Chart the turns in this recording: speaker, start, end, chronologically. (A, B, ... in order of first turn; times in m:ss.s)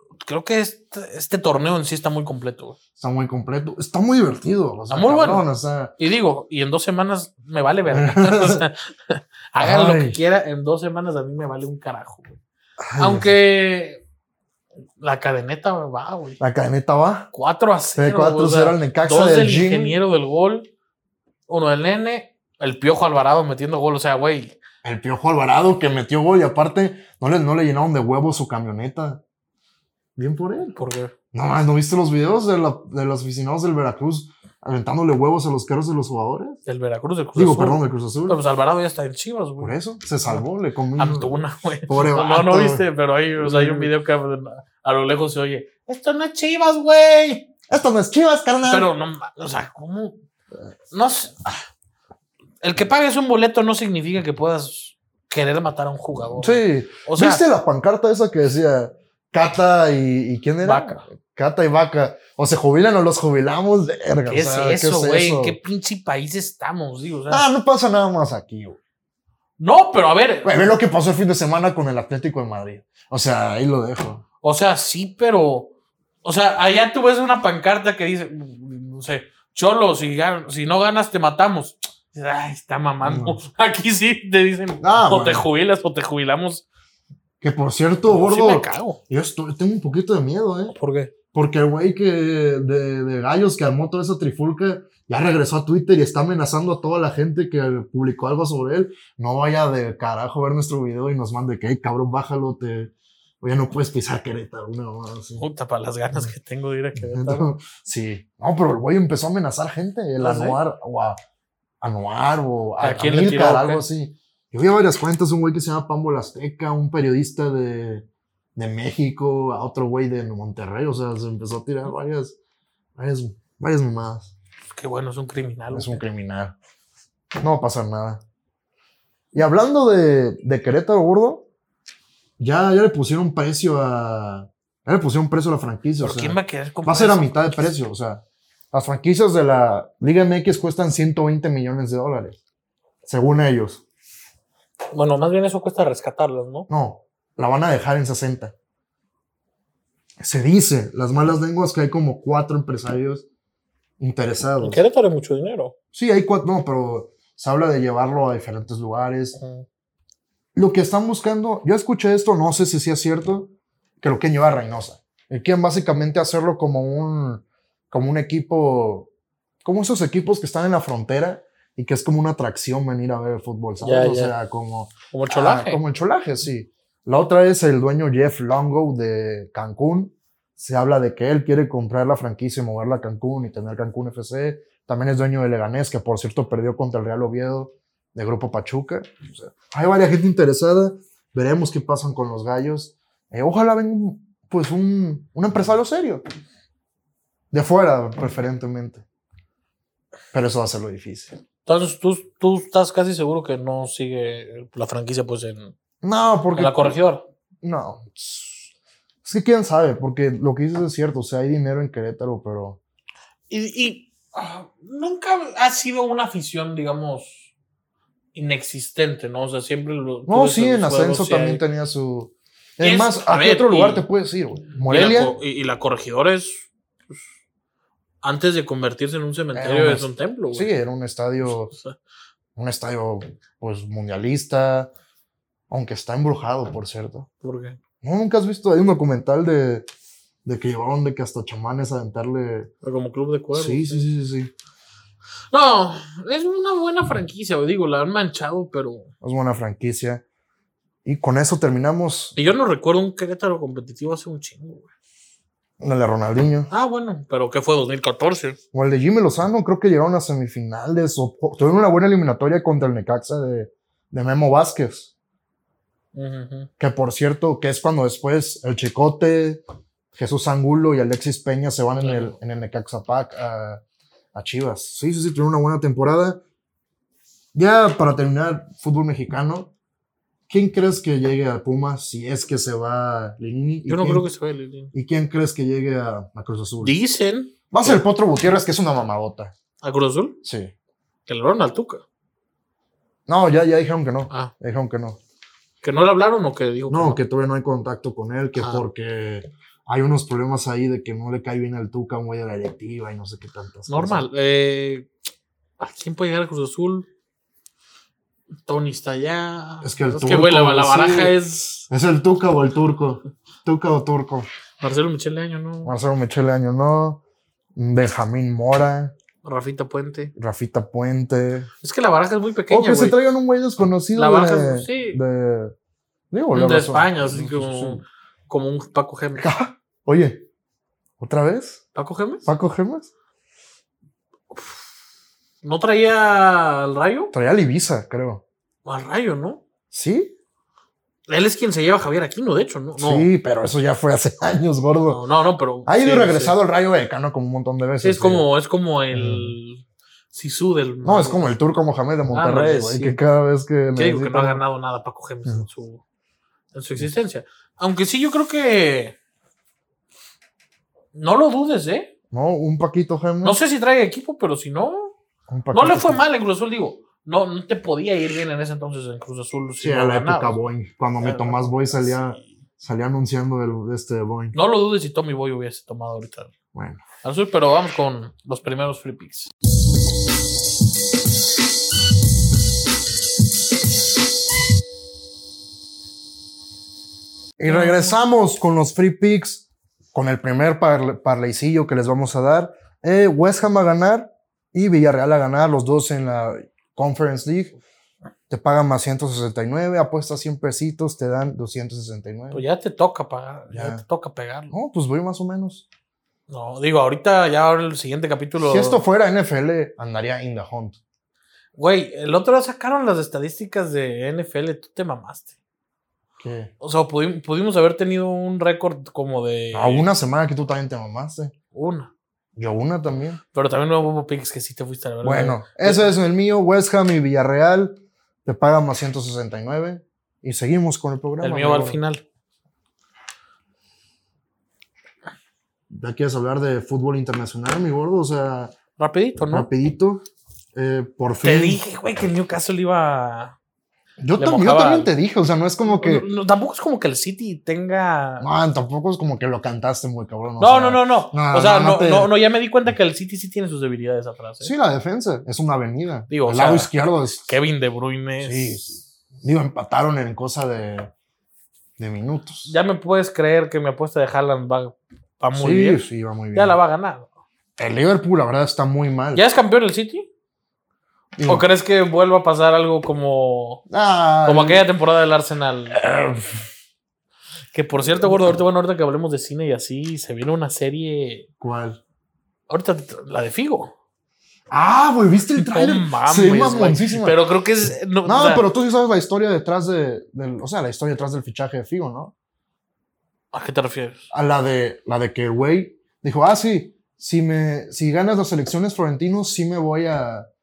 0:00.2-0:02.8 A
0:03.0-0:05.9 B
0:04.9-0:05.4 A
0:06.0-0:12.4 A
0:07.9-0:08.6 B
0:09.6-0:10.2 B
0:12.8-0:13.3 B
0:13.0-0:14.0 A
0:15.0-0:16.4 A
0:16.4-0:17.3 B
0:17.3-0:20.7 A
0:17.9-0:20.0 B
0:21.5-0:24.6 A
0:24.8-0:29.2 B
0:30.2-0:30.8 B
0:30.8-0:31.1 A
0:31.3-0:36.6 B
0:36.6-0:39.7 A
0:37.4-0:38.4 B
0:39.6-0:42.8 B
0:41.0-0:47.5 A
0:43.4-0:43.9 B
0:47.7-0:48.9 B
0:48.6-0:50.2 A
0:50.9-0:51.6 A
0:52.6-0:57.4 A
0:56.4-1:05.6 B
1:00.6-1:01.0 A
1:04.3-1:07.4 A
1:07.3-1:08.8 B
1:09.6-1:10.5 A
1:10.4-1:14.2 B
1:14.4-1:15.7 A
1:16.2-1:26.6 A
1:23.0-1:23.4 B
1:24.8-1:25.5 B
1:27.4-1:30.7 B
1:28.1-1:29.0 A
1:30.7-1:31.1 A
1:31.3-1:45.4 B
1:45.4-1:47.5 A
1:47.0-1:51.2 B
1:50.2-1:50.6 A
1:51.8-2:02.4 B
1:52.8-1:53.8 A
2:03.0-2:04.3 B
2:04.7-2:06.0 A
2:05.7-2:06.5 B
2:07.4-2:08.2 B
2:09.3-2:11.4 B
2:12.4-2:22.4 B
2:16.0-2:17.3 A
2:23.0-2:23.8 B
2:24.9-2:26.7 A
2:26.7-2:28.5 B
2:30.2-2:33.2 B
2:34.0-2:34.8 B
2:34.6-2:35.7 A
2:35.9-2:39.4 B
2:39.4-2:39.6 A
2:40.5-2:49.1 B
2:49.6-3:16.2 B
2:53.8-2:54.3 A
2:55.1-2:55.8 A
3:17.5-3:19.0 B
3:20.3-3:21.4 B
3:21.6-3:25.7 A
3:26.0-3:27.0 B
3:26.5-3:27.2 A
3:27.6-3:28.7 B
3:29.2-3:32.8 B
3:33.5-3:37.4 A
3:38.3-3:41.6 A
3:40.3-3:45.3 B
3:42.8-3:44.0 A
3:44.9-3:47.3 A
3:48.2-3:50.7 A
3:49.5-3:51.7 B
3:51.7-3:52.0 A
3:52.6-3:54.9 B
3:55.7-3:57.3 B
3:57.4-3:57.8 A
3:58.0-3:59.9 B
4:00.4-4:02.7 B
4:02.8-4:04.0 A
4:03.5-4:04.5 B
4:05.5-4:09.1 A
4:09.2-4:10.2 B
4:11.0-4:12.4 B
4:12.4-4:14.9 A
4:15.8-4:16.7 B
4:16.7-4:18.6 A
4:18.7-4:25.1 B
4:26.1-4:26.7 A
4:26.8-4:29.6 B
4:30.1-4:33.8 B
4:32.0-4:32.4 A
4:34.3-4:36.4 B
4:37.5-4:39.7 B
4:40.5-4:44.3 B
4:43.9-4:44.9 A
4:44.9-4:47.0 B
4:46.8-4:48.0 A
4:47.7-4:49.5 B
4:49.8-4:50.4 A
4:50.4-4:50.7 B
4:51.3-4:52.0 A
4:53.3-4:55.2 B
4:55.8-4:57.2 A
4:56.9-5:04.3 B
4:58.6-4:58.8 A
5:03.9-5:05.1 A
5:05.8-5:07.1 A
5:08.6-5:11.9 A
5:09.8-5:11.4 B
5:11.9-5:14.5 B
5:14.8-5:15.9 A
5:15.8-5:17.2 B
5:17.8-5:19.1 B
5:19.4-5:20.3 A
5:20.4-5:21.7 B
5:21.8-5:23.2 A
5:22.7-5:25.7 B
5:24.1-5:25.2 A
5:26.3-5:28.0 B
5:26.5-5:29.5 A
5:29.4-5:30.4 B
5:31.2-5:31.8 B
5:31.9-5:32.5 A
5:32.4-5:33.1 B
5:34.5-5:34.8 A
5:35.6-5:37.3 A
5:37.3-5:38.4 B
5:38.8-5:39.6 A
5:39.9-5:40.3 B
5:41.3-5:43.3 A
5:43.0-5:45.2 B
5:45.1-5:46.6 A
5:45.8-5:48.4 B
5:48.0-5:51.4 A
5:49.1-5:49.6 B
5:51.0-5:54.6 B
5:52.3-5:53.2 A
5:53.9-5:56.0 A
5:56.7-5:59.2 A
6:01.1-6:02.1 A
6:02.3-6:03.6 B
6:03.4-6:05.1 A
6:05.5-6:06.2 B
6:05.7-6:10.6 A
6:09.8-6:14.6 B
6:11.2-6:12.4 A
6:14.5-6:16.5 A
6:16.7-6:17.0 B
6:17.2-6:19.5 A
6:27.6-6:37.8 B
6:27.6-6:28.1 A
6:38.5-6:42.6 B
6:42.5-6:44.7 A
6:43.7-6:44.0 B
6:44.7-6:45.8 B
6:46.5-6:49.0 A
6:48.6-6:51.0 B
6:51.7-6:55.5 A
6:56.4-6:56.7 B
6:56.8-7:00.1 A
6:59.7-7:01.5 B
7:01.7-7:02.1 A
7:02.6-7:03.4 B
7:03.5-7:06.1 A
7:05.2-7:12.0 B
7:11.4-7:12.2 A
7:15.9-7:18.7 B
7:19.0-7:19.7 A
7:19.5-7:20.2 B
7:20.7-7:21.8 B
7:21.4-7:23.5 A
7:24.2-7:26.3 B
7:24.4-7:25.1 A
7:25.9-7:28.5 A
7:28.4-7:32.3 B
7:30.6-7:34.7 A
7:34.6-7:37.6 B
7:36.3-7:36.9 A
7:37.4-7:38.8 A
7:38.4-7:41.1 B
7:42.0-7:42.7 B
7:42.6-7:47.3 A
7:45.6-7:46.8 B
7:47.8-7:49.4 B
7:49.3-7:50.3 A
7:51.4-7:51.6 B
7:51.4-7:53.8 A
7:53.9-7:54.8 B
7:54.4-7:56.0 A
7:55.9-7:56.6 B
7:57.7-8:01.5 A
8:01.6-8:02.0 B
8:02.7-8:03.9 A
8:04.7-8:07.4 B
8:05.6-8:08.6 A
8:08.2-8:12.3 B
8:13.5-8:14.2 A
8:14.3-8:20.5 B